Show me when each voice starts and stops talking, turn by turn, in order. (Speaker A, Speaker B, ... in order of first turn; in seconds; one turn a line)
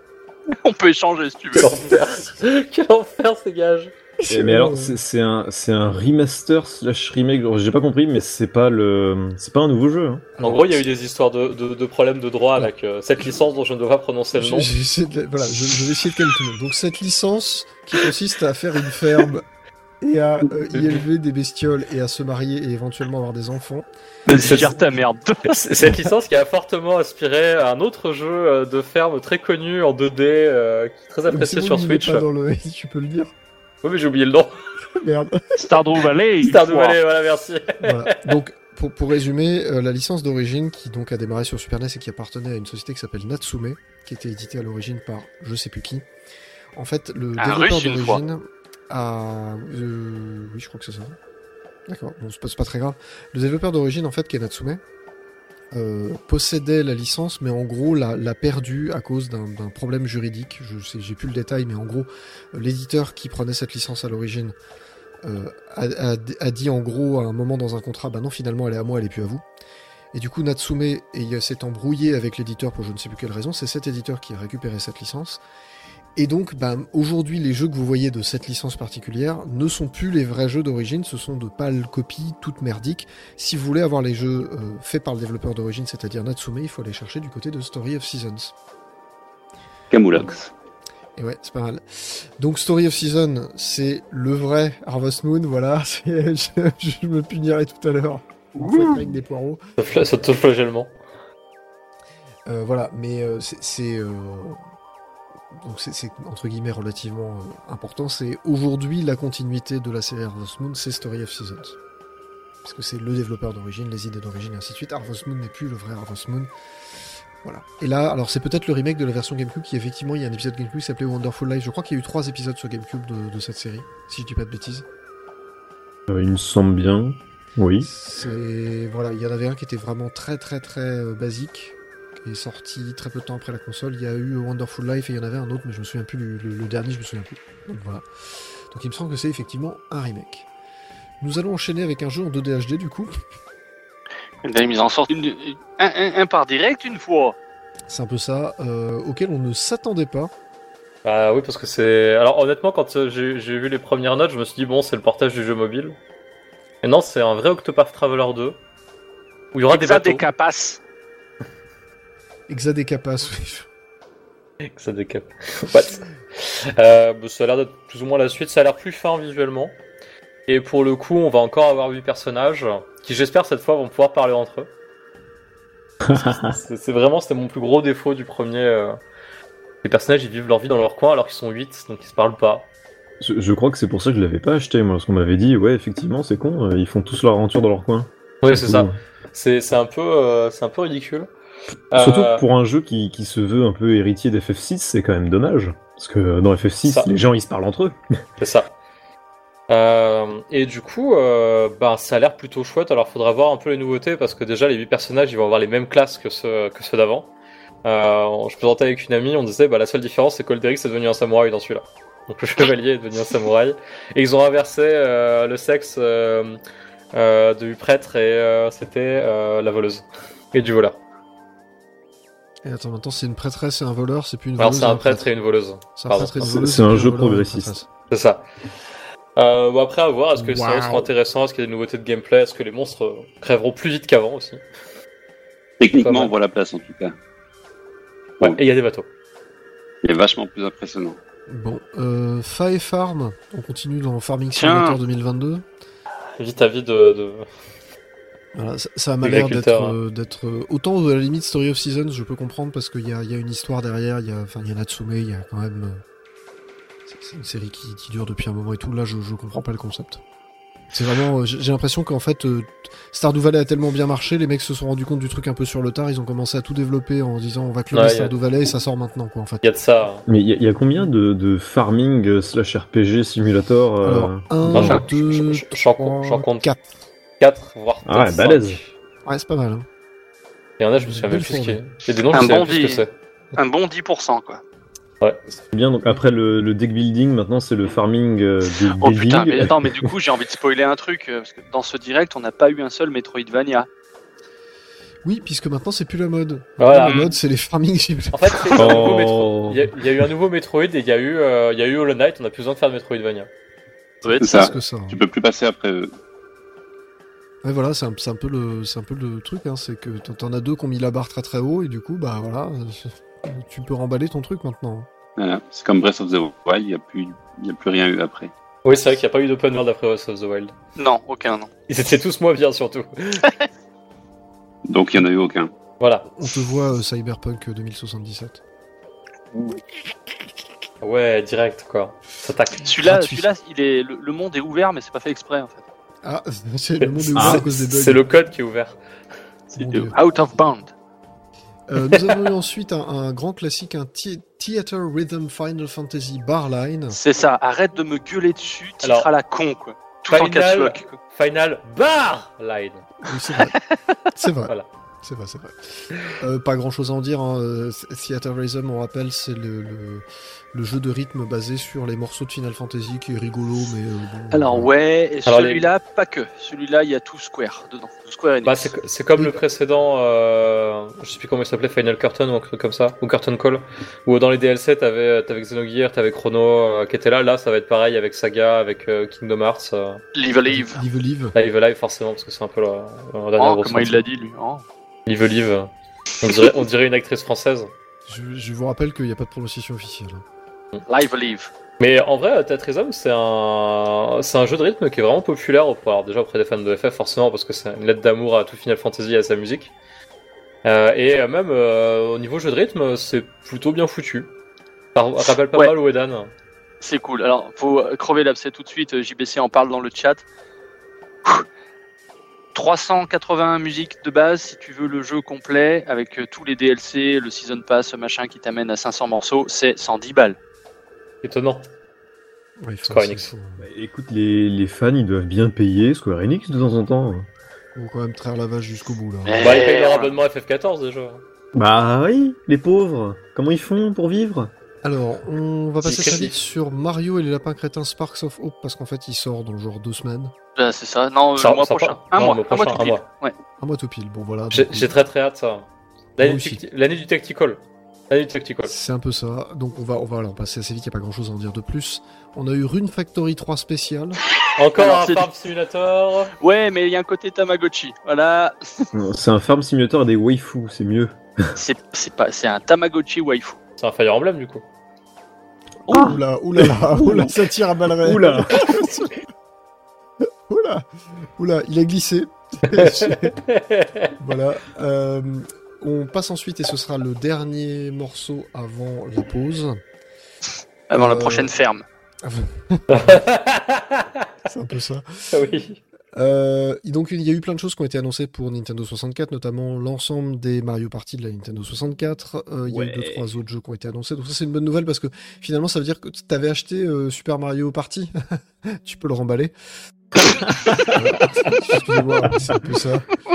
Speaker A: 0.6-1.9
Speaker B: 1.6-3.9
Speaker C: 4.2-5.0
Speaker D: 4.3-10.3
Speaker C: 10.4-10.8
Speaker B: 10.4-14.7
Speaker C: 14.3-19.5
Speaker C: 20.0-23.9
Speaker A: 24.3-25.6
Speaker B: 24.4-24.7
Speaker C: 24.4-24.8
Speaker B: 25.5-32.3
Speaker C: 31.3-33.3
Speaker B: 33.8-34.6
Speaker C: 35.0-35.4
Speaker A: 35.6-37.0
Speaker B: 36.4-38.3
Speaker C: 37.8-46.0
Speaker C: 46.8-51.2
Speaker A: 47.4-48.2
Speaker C: 51.9-54.8
Speaker C: 55.7-64.5
Speaker C: 65.2-69.4
Speaker C: 70.1-75.4
Speaker C: 76.2-88.5
Speaker E: 89.9-90.5
Speaker C: 91.2-99.6
Speaker B: 99.8-100.9
Speaker C: 102.5-104.6
Speaker C: 105.5-111.8
Speaker C: 112.6-116.5
Speaker C: 117.4-124.8
Speaker D: 126.1-127.9
Speaker C: 127.8-138.0
Speaker C: 138.7-140.5
Speaker C: 141.2-143.1
Speaker A: 144.4-147.4
Speaker C: 147.9-150.3
Speaker B: 151.1-156.0
Speaker B: 156.8-158.6
Speaker B: 159.5-160.3
Speaker A: 159.7-160.8
Speaker C: 162.5-163.7
Speaker B: 164.7-169.8
Speaker B: 170.5-174.7
Speaker D: 176.1-176.6
Speaker B: 176.1-179.0
Speaker B: 179.8-182.7
Speaker D: 183.2-189.0
Speaker B: 188.4-191.3
Speaker B: 191.9-192.4
Speaker D: 192.0-198.0
Speaker B: 198.4-198.7
Speaker B: 199.7-207.3
Speaker B: 207.8-216.6
Speaker B: 217.1-221.0
Speaker C: 222.6-225.3
Speaker B: 224.6-226.3
Speaker C: 226.0-227.9
Speaker D: 226.4-227.8
Speaker B: 228.1-228.4
Speaker B: 229.4-234.6
Speaker C: 230.4-231.1
Speaker E: 235.8-237.2
Speaker B: 235.9-236.3
Speaker B: 238.4-239.1
Speaker E: 240.0-241.2
Speaker C: 241.5-245.7
Speaker A: 244.6-245.0
Speaker B: 246.4-247.5
Speaker C: 248.6-256.0
Speaker B: 249.2-250.0
Speaker C: 257.1-260.2
Speaker C: 260.9-269.6
Speaker B: 267.9-268.3
Speaker B: 269.6-270.2
Speaker D: 270.3-275.0
Speaker C: 274.0-276.9
Speaker B: 274.7-276.7
Speaker B: 277.4-278.9
Speaker D: 278.1-278.8
Speaker C: 279.2-279.9
Speaker B: 280.8-283.1
Speaker C: 281.0-281.8
Speaker A: 282.3-284.6
Speaker D: 285.7-290.1
Speaker A: 289.0-293.9
Speaker C: 295.2-298.7
Speaker B: 296.8-297.2
Speaker A: 297.0-297.3
Speaker B: 298.3-303.5
Speaker D: 298.8-299.9
Speaker A: 304.2-304.7
Speaker C: 304.2-305.2
Speaker E: 304.4-306.1
Speaker C: 307.6-315.1
Speaker E: 315.4-318.5
Speaker B: 318.8-320.7
Speaker A: 321.0-321.7
Speaker B: 321.9-323.5
Speaker E: 324.9-325.7
Speaker B: 326.0-326.3
Speaker C: 326.3-328.6
Speaker B: 331.0-332.9
Speaker A: 332.8-335.8
Speaker C: 333.1-333.5
Speaker C: 336.2-338.2
Speaker B: 337.0-339.0
Speaker D: 337.4-337.6
Speaker A: 339.7-340.9
Speaker C: 339.8-340.2
Speaker C: 341.9-347.2
Speaker B: 342.1-342.4
Speaker A: 347.1-351.2
Speaker B: 349.0-349.3
Speaker B: 350.3-353.1
Speaker C: 353.2-353.8
Speaker C: 354.3-364.9
Speaker A: 364.5-369.0
Speaker B: 365.5-365.9
Speaker B: 368.6-380.2
Speaker A: 380.4-381.0
Speaker C: 380.7-381.6
Speaker B: 381.6-384.2
Speaker A: 383.6-384.9
Speaker B: 385.3-385.9
Speaker B: 386.4-387.9
Speaker C: 388.3-390.4
Speaker A: 391.1-391.7
Speaker B: 392.0-399.9
Speaker B: 400.9-404.5
Speaker B: 405.1-406.5
Speaker A: 407.0-410.4
Speaker A: 412.8-420.6
Speaker B: 421.4-421.9
Speaker C: 422.8-423.9
Speaker B: 423.1-423.5
Speaker D: 423.8-427.5
Speaker C: 427.9-429.7
Speaker A: 429.4-430.4
Speaker B: 429.6-431.4
Speaker D: 431.7-434.7
Speaker C: 435.0-440.5
Speaker B: 436.0-436.6
Speaker A: 440.8-443.6
Speaker B: 441.6-443.2
Speaker C: 443.8-445.1
Speaker B: 444.7-448.9
Speaker C: 446.4-446.8
Speaker C: 448.9-454.4
Speaker B: 454.8-456.5
Speaker A: 455.0-455.5
Speaker A: 456.6-459.1
Speaker D: 459.1-461.8
Speaker A: 461.8-463.8
Speaker B: 464.0-464.8
Speaker C: 466.1-469.4
Speaker D: 466.1-467.5
Speaker D: 468.2-469.1
Speaker C: 470.7-473.6
Speaker B: 472.9-474.3
Speaker C: 474.4-480.0
Speaker A: 481.1-482.1
Speaker C: 481.1-481.7
Speaker C: 482.4-483.4
Speaker B: 483.1-484.5
Speaker C: 484.7-485.6
Speaker B: 485.5-486.0
Speaker C: 486.4-498.3
Speaker D: 492.9-493.4
Speaker C: 498.9-499.7
Speaker D: 500.5-501.1
Speaker C: 501.1-503.3